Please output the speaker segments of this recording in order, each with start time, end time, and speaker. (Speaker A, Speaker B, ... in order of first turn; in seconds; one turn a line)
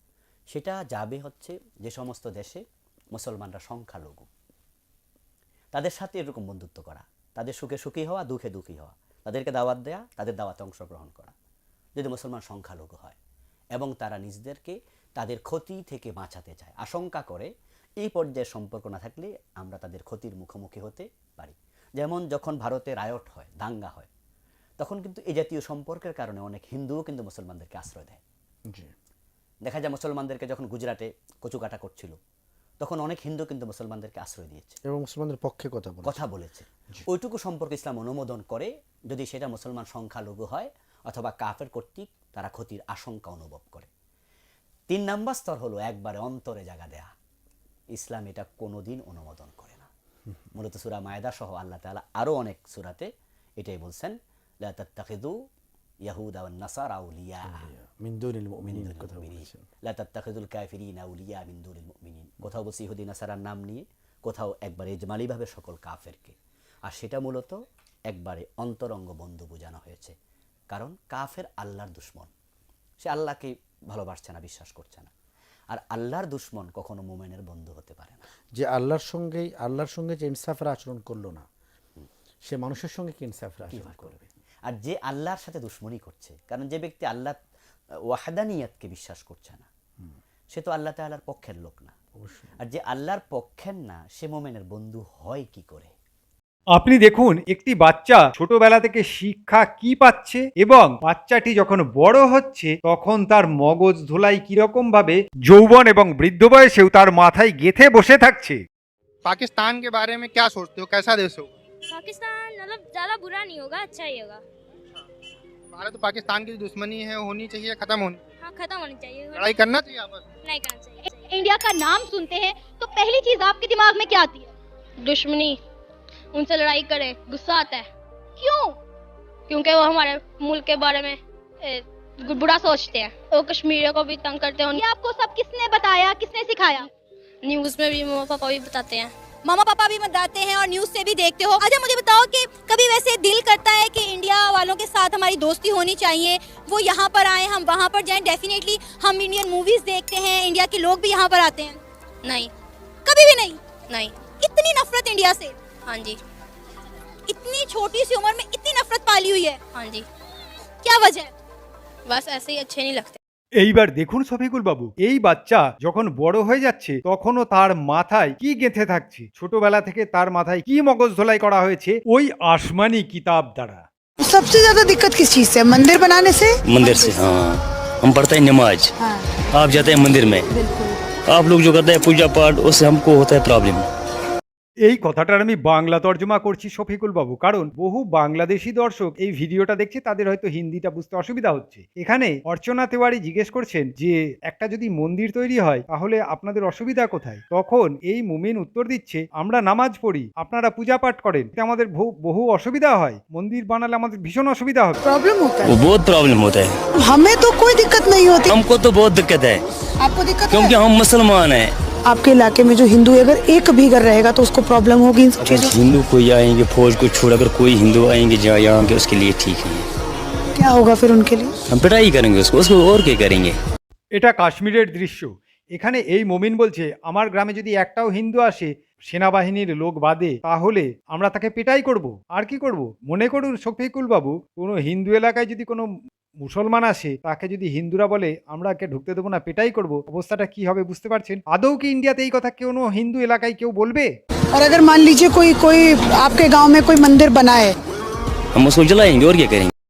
Speaker A: 0.5-4.3
Speaker A: 5.7-11.3
Speaker A: 11.9-13.2
Speaker A: 13.7-24.1
Speaker A: 24.8-28.2
Speaker A: 29.6-32.2
Speaker A: 32.8-34.8
Speaker B: 34.8-36.2
Speaker A: 36.0-43.9
Speaker A: 44.9-47.1
Speaker A: 47.9-49.9
Speaker A: 50.5-55.4
Speaker A: 56.0-57.7
Speaker B: 57.5-59.6
Speaker A: 58.7-66.3
Speaker A: 66.9-67.6
Speaker A: 68.1-70.1
Speaker A: 70.7-72.3
Speaker A: 73.0-75.1
Speaker A: 75.7-78.2
Speaker B: 78.5-81.4
Speaker B: 82.4-84.3
Speaker A: 83.6-87.4
Speaker A: 88.1-89.7
Speaker A: 90.5-91.9
Speaker B: 92.2-92.5
Speaker A: 92.6-95.9
Speaker C: 96.7-108.6
Speaker D: 109.2-111.5
Speaker E: 111.9-114.4
Speaker D: 115.7-118.2
Speaker E: 118.4-119.5
Speaker D: 119.3-120.2
Speaker E: 120.4-121.3
Speaker F: 121.3-124.5
Speaker E: 125.0-125.6
Speaker E: 126.3-127.9
Speaker E: 129.5-134.8
Speaker F: 134.7-136.8
Speaker E: 137.4-139.1
Speaker F: 139.4-151.8
Speaker E: 152.2-152.5
Speaker F: 153.1-153.6
Speaker E: 153.9-154.2
Speaker F: 154.4-155.5
Speaker E: 155.9-156.2
Speaker F: 157.3-159.6
Speaker E: 159.7-160.1
Speaker F: 160.8-161.3
Speaker E: 162.1-163.2
Speaker C: 163.6-173.8
Speaker G: 174.2-177.2
Speaker H: 176.6-178.9
Speaker H: 179.5-180.5
Speaker G: 180.5-180.9
Speaker H: 181.3-183.8
Speaker C: 184.8-205.0
Speaker G: 205.0-205.8
Speaker H: 205.6-206.8
Speaker G: 207.0-208.5
Speaker H: 208.5-209.6
Speaker G: 210.0-210.7
Speaker H: 210.5-211.7
Speaker G: 212.1-215.7
Speaker H: 215.4-219.9
Speaker G: 220.6-221.5
Speaker H: 221.7-223.6
Speaker C: 224.1-235.9
Speaker C: 236.4-244.1
Speaker G: 244.5-247.7
Speaker H: 248.5-249.7